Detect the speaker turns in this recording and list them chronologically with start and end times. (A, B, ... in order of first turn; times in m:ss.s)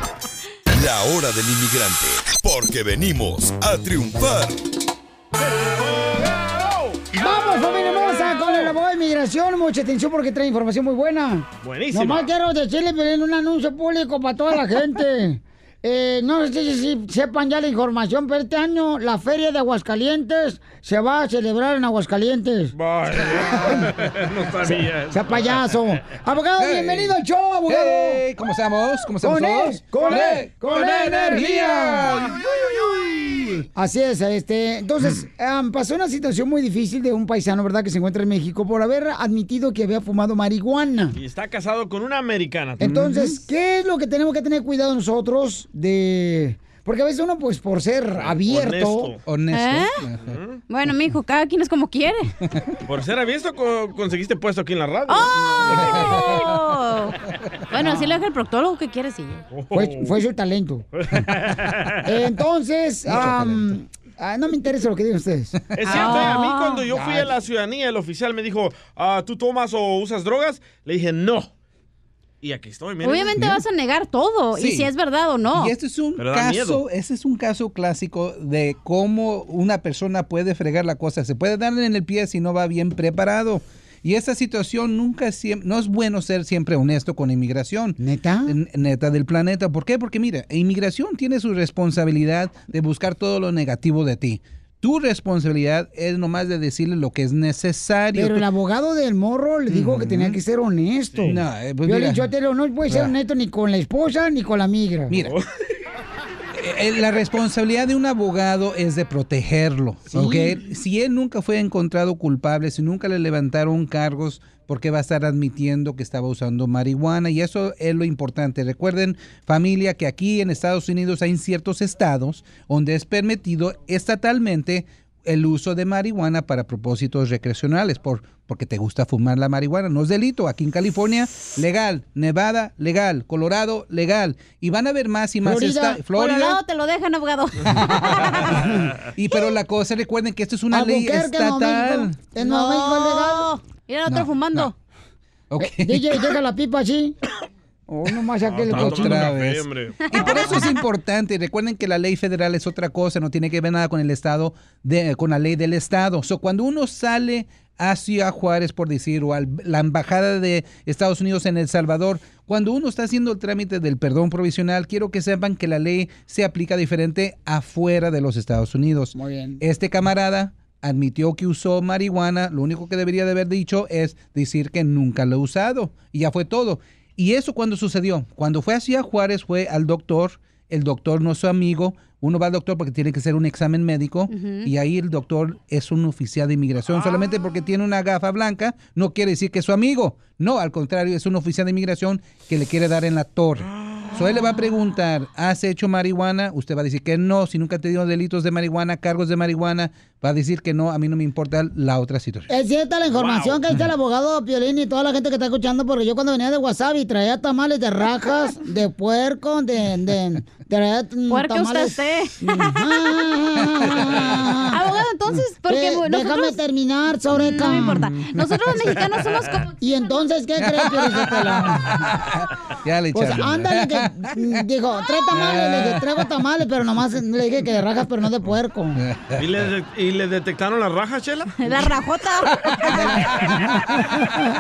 0:00.7-0:04.6 A
0:05.8-0:08.6 B
0:07.1-0:23.9 C
0:11.6-0:12.3 B
0:22.7-0:25.7 B
0:24.7-0:28.3 C
0:26.6-0:27.2 D
0:27.7-0:32.4 D
0:29.2-0:32.3 C
0:33.0-0:33.5 D
0:33.7-0:41.2 C
0:41.1-0:43.0 B
0:42.8-0:49.1 C
0:48.2-0:49.2 B
0:49.3-0:50.4 D
0:49.5-0:50.0 E
0:50.2-0:50.6 B
0:50.7-0:52.3 E
0:52.9-0:55.8 B
0:55.1-0:57.2 E
0:55.8-0:56.3 D
0:57.7-0:59.4 E
0:57.8-0:58.1 C
0:59.5-1:00.1 B
0:59.7-1:00.9 C
1:01.0-1:02.0 B
1:02.0-1:05.6 C
1:03.1-1:03.6 D
1:05.8-1:11.5 B
1:05.8-1:06.9 E
1:06.9-1:07.3 C
1:12.4-1:13.4 B
1:13.0-1:15.7 E
1:14.5-1:14.9 D
1:15.5-1:38.4 D
1:16.2-1:16.8 B
1:28.0-1:28.6 C
1:38.2-1:45.2 C
1:39.7-1:40.4 D
1:41.2-1:42.3 D
1:42.9-1:43.1 D
1:45.2-1:45.4 B
1:46.6-2:16.6 D
1:50.1-1:50.6 C
2:15.4-2:16.1 C
2:16.1-2:18.6 E
2:19.2-2:22.2 D
2:20.7-2:23.5 C
2:22.4-2:24.7 E
2:24.1-2:24.7 D
2:25.5-2:26.2 D
2:25.6-2:27.2 C
2:27.9-2:29.3 C
2:28.4-2:30.0 B
2:28.7-3:22.5 D
2:30.1-2:30.8 E
2:49.2-2:49.6 C
3:04.3-3:04.7 E
3:06.9-3:07.3 B
3:13.6-3:14.2 B
3:22.5-3:34.8 C
3:23.1-3:23.6 B
3:31.3-3:32.9 E
3:34.7-3:36.6 E
3:35.6-3:38.1 C
3:37.4-3:40.3 E
3:39.8-3:42.0 C
3:40.6-3:44.6 D
3:43.1-3:49.0 C
3:45.3-3:46.1 D
3:49.0-3:49.6 D
3:49.4-3:51.7 B
3:51.6-3:53.3 E